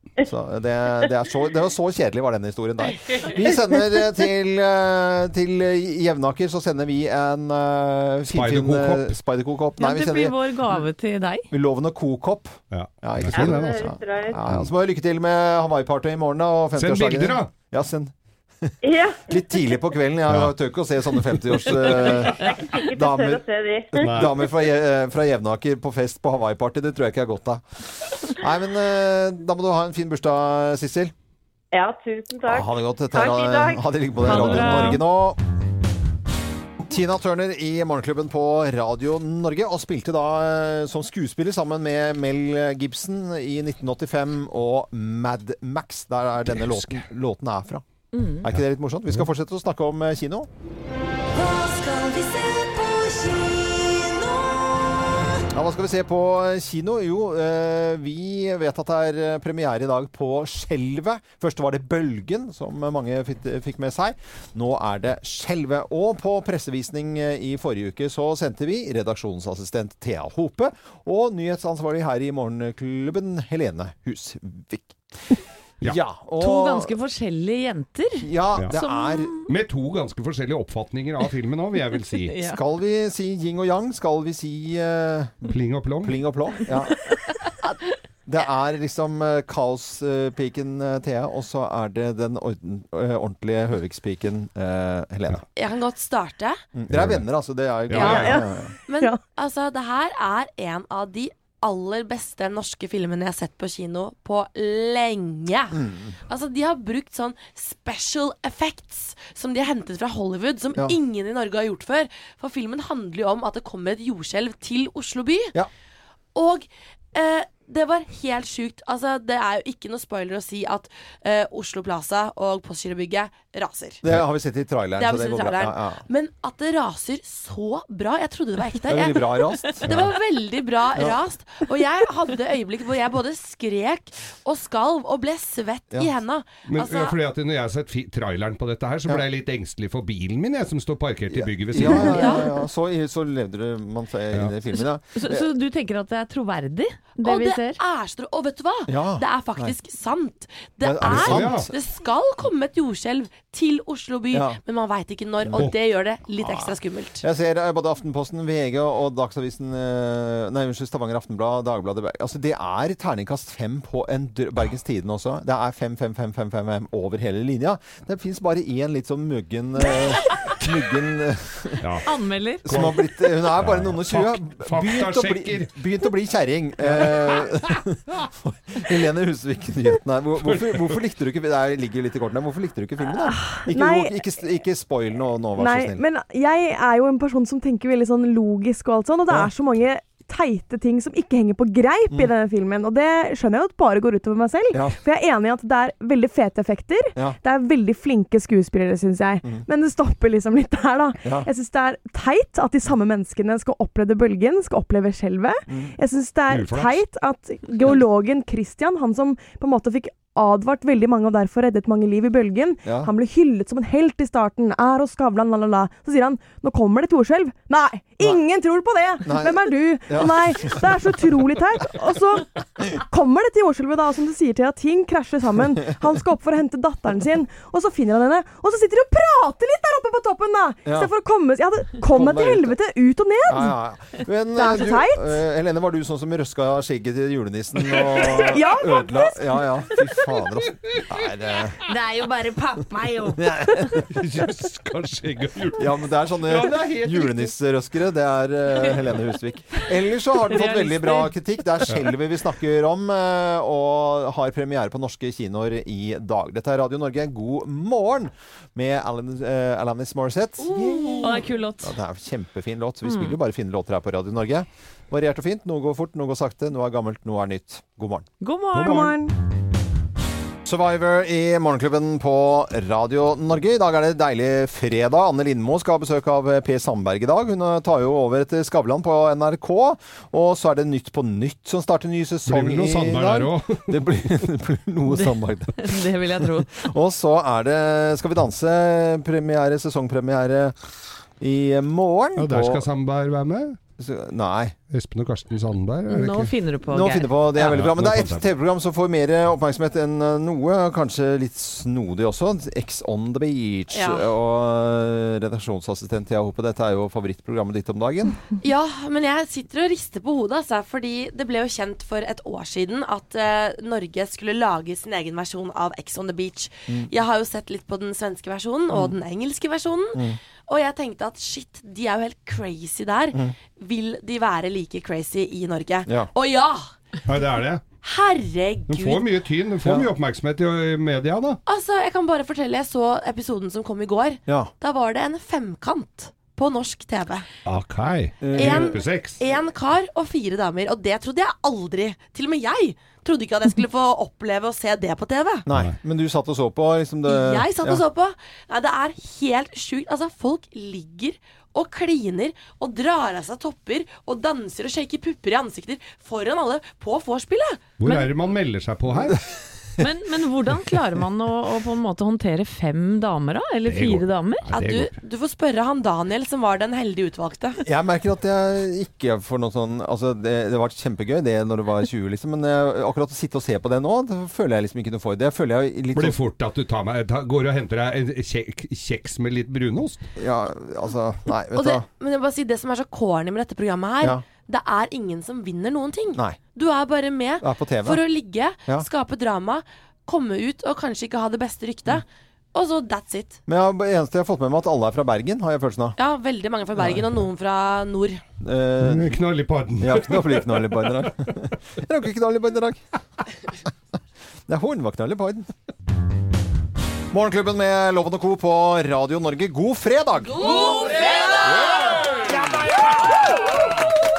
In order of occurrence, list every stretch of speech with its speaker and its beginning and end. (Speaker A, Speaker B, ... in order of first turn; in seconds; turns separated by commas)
Speaker A: 0.2-10.4, Speaker B: 8.3-9.2, Speaker C: 9.8-11.5, Speaker A: 11.5-18.8, Speaker B: 12.7-13.9, Speaker D: 13.3-14.4, Speaker B: 16.8-17.5, Speaker D: 18.8-19.6, Speaker A: 19.3-23.4, Speaker B: 20.3-20.5, Speaker D: 21.9-24.2, Speaker A: 23.9-27.6, Speaker B: 24.0-24.4, Speaker A: 28.2-31.1, Speaker D: 31.7-35.0, Speaker A: 32.5-35.4, Speaker C: 34.2-35.0, Speaker A: 36.9-47.8, Speaker B: 46.5-47.0, Speaker C: 48.1-48.5, Speaker A: 48.4-50.5, Speaker C: 52.0-52.5, Speaker A: 55.5-76.9, Speaker C: 76.4-79.5, Speaker A: 78.2-79.3, Speaker B: 79.5-82.3, Speaker C: 82.3-82.6, Speaker A: 82.4-87.1, Speaker B: 85.5-86.2, Speaker A: 88.3-95.4, Speaker E: 95.6-96.6, Speaker A: 96.8-98.7, Speaker B: 96.9-97.2, Speaker B: 97.9-98.4, Speaker E: 97.9-115.5, Speaker F: 98.1-98.5, Speaker A: 105.7-106.2, Speaker E: 116.3-124.0, Speaker A: 124.0-126.0, Speaker E: 125.0-137.2, Speaker A: 128.9-130.1, Speaker B: 129.9-130.2, Speaker A: 130.9-131.2, Speaker B: 136.7-142.2, Speaker A: 141.3-145.5, Speaker E: 141.8-142.5, Speaker C: 145.1-147.8, Speaker E: 147.2-157.2, Speaker A: 148.9-149.7, Speaker A: 150.8-151.7, Speaker B: 151.0-151.7, Speaker A: 154.3-154.6, Speaker A: 155.4-155.7, Speaker A: 156.4-171.9, Speaker B: 171.8-172.1, Speaker C: 172.0-172.7, Speaker B: 172.7-175.7, Speaker A: 172.7-186.0, Speaker B: 180.4-181.0, Speaker F: 183.2-184.2, Speaker F: 185.6-233.8, Speaker A: 205.7-205.9, Speaker B: 206.5-207.0, Speaker A: 212.8-213.1, Speaker A: 219.3-220.9, Speaker A: 230.9-231.1, Speaker A: 232.1-232.8, Speaker A: 233.5-241.8, Speaker F: 234.6-235.3, Speaker F: 238.3-239.4, Speaker C: 241.9-243.5, Speaker A: 243.4-244.1, Speaker B: 244.1-247.5, Speaker A: 245.8-268.3, Speaker C: 250.4-251.3, Speaker E: 260.6-261.4, Speaker C: 261.2-261.9, Speaker C: 263.1-263.3, Speaker C: 268.4-269.2, Speaker B: 268.8-269.2, Speaker F: 268.8-269.3, Speaker A: 270.6-286.0, Speaker B: 282.5-284.0, Speaker C: 285.1-286.8, Speaker A: 286.7-290.8, Speaker A: 291.4-292.9, Speaker B: 292.4-293.8, Speaker A: 294.0-294.8, Speaker B: 294.9-296.5, Speaker C: 296.1-297.4, Speaker A: 296.9-308.4, Speaker B: 297.6-298.5, Speaker E: 303.9-304.3, Speaker E: 308.6-326.8, Speaker B: 327.2-327.8, Speaker E: 328.0-329.3, Speaker B: 328.9-331.6, Speaker A: 329.8-330.1, Speaker E: 331.7-337.5, Speaker B: 337.6-339.4, Speaker A: 338.4-339.0, Speaker E: 338.6-345.7, Speaker A: 345.7-348.0, Speaker E: 347.3-357.9, Speaker B: 358.0-359.4, Speaker C: 358.0-358.3, Speaker C: 360.0-364.7, Speaker B: 363.9-365.1, Speaker E: 364.7-367.8, Speaker A: 367.8-376.4, Speaker B: 376.1-380.2, Speaker A: 380.4-382.1, Speaker E: 381.7-393.6, Speaker A: 387.6-388.2, Speaker A: 393.7-396.2, Speaker E: 396.2-398.4, Speaker A: 397.0-397.4, Speaker A: 398.6-399.4, Speaker B: 399.0-401.3, Speaker A: 400.0-403.0, Speaker A: 404.7-405.7, Speaker A: 407.3-411.0, Speaker E: 410.6-411.8, Speaker B: 411.8-412.2, Speaker A: 412.4-413.4